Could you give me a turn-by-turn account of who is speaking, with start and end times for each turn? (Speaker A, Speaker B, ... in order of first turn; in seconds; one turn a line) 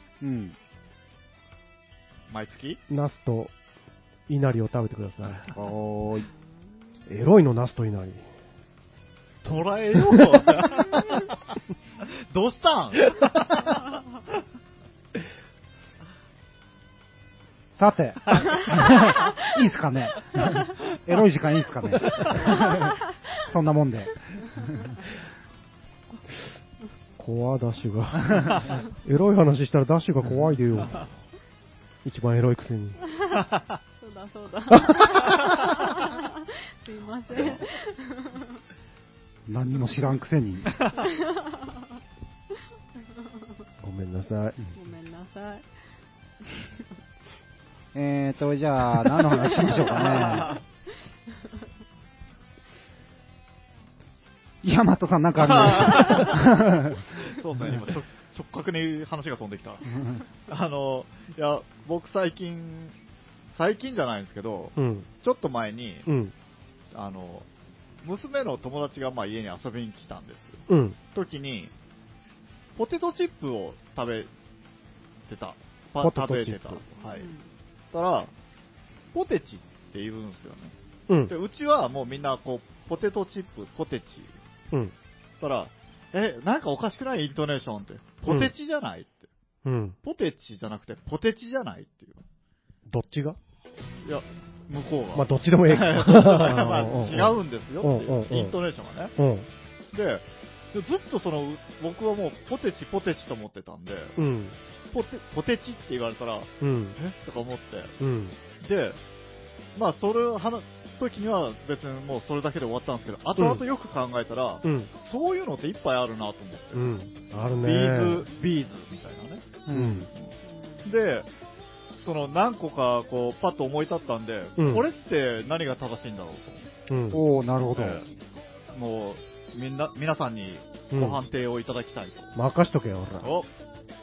Speaker A: 0.2-0.6
Speaker B: 2.3-2.8
Speaker C: 2.9-3.5
Speaker C: 4.3-5.5
Speaker A: 5.4-6.3
Speaker C: 7.1-8.2
Speaker B: 9.4-11.2
Speaker B: 12.0-13.7
Speaker A: 17.7-24.2
Speaker D: 18.7-19.3
Speaker D: 22.5-22.9
Speaker C: 27.2-31.1
Speaker C: 32.0-33.0
Speaker D: 33.1-33.5
Speaker D: 34.0-38.6
Speaker C: 34.7-35.0
Speaker A: 39.5-40.7
Speaker B: 40.7-41.1
Speaker D: 40.9-41.9
Speaker D: 43.1-43.6
Speaker C: 43.8-44.6
Speaker D: 44.7-45.6
Speaker A: 47.9-50.5
Speaker D: 49.5-50.5
Speaker B: 49.9-50.6
Speaker A: 54.6-57.2
Speaker B: 55.4-56.4
Speaker B: 57.1-59.9
Speaker A: 59.9-60.2
Speaker B: 60.5-63.0
Speaker B: 63.5-66.0
Speaker C: 64.8-65.1
Speaker C: 66.0-66.3
Speaker B: 66.9-67.5
Speaker B: 68.0-70.6
Speaker C: 70.7-71.0
Speaker B: 71.1-71.7
Speaker B: 72.8-74.3
Speaker B: 75.3-77.3
Speaker C: 76.0-76.8
Speaker D: 77.0-77.5
Speaker B: 77.9-78.3
Speaker B: 79.1-80.7
Speaker C: 81.1-81.3
Speaker B: 81.3-84.3
Speaker B: 85.4-89.3
Speaker C: 88.2-88.5
Speaker C: 89.6-90.0
Speaker B: 90.0-92.2
Speaker C: 92.9-93.4
Speaker B: 94.0-99.1
Speaker C: 95.1-98.6
Speaker C: 99.2-99.5
Speaker B: 99.9-104.1
Speaker C: 104.2-104.5
Speaker B: 104.9-107.9
Speaker C: 106.6-107.0
Speaker C: 108.0-108.3
Speaker B: 108.6-109.0
Speaker B: 109.7-117.0
Speaker C: 113.4-113.6
Speaker C: 114.6-114.9
Speaker C: 116.7-118.2
Speaker B: 117.6-119.5
Speaker A: 119.7-120.1
Speaker C: 119.7-120.1
Speaker D: 120.4-120.9
Speaker B: 120.8-121.3
Speaker B: 122.0-126.7
Speaker C: 124.6-124.8
Speaker C: 126.9-127.2
Speaker A: 127.1-128.0
Speaker B: 127.7-128.1
Speaker B: 128.7-132.3
Speaker C: 130.9-131.2
Speaker C: 132.3-133.3
Speaker B: 133.2-133.5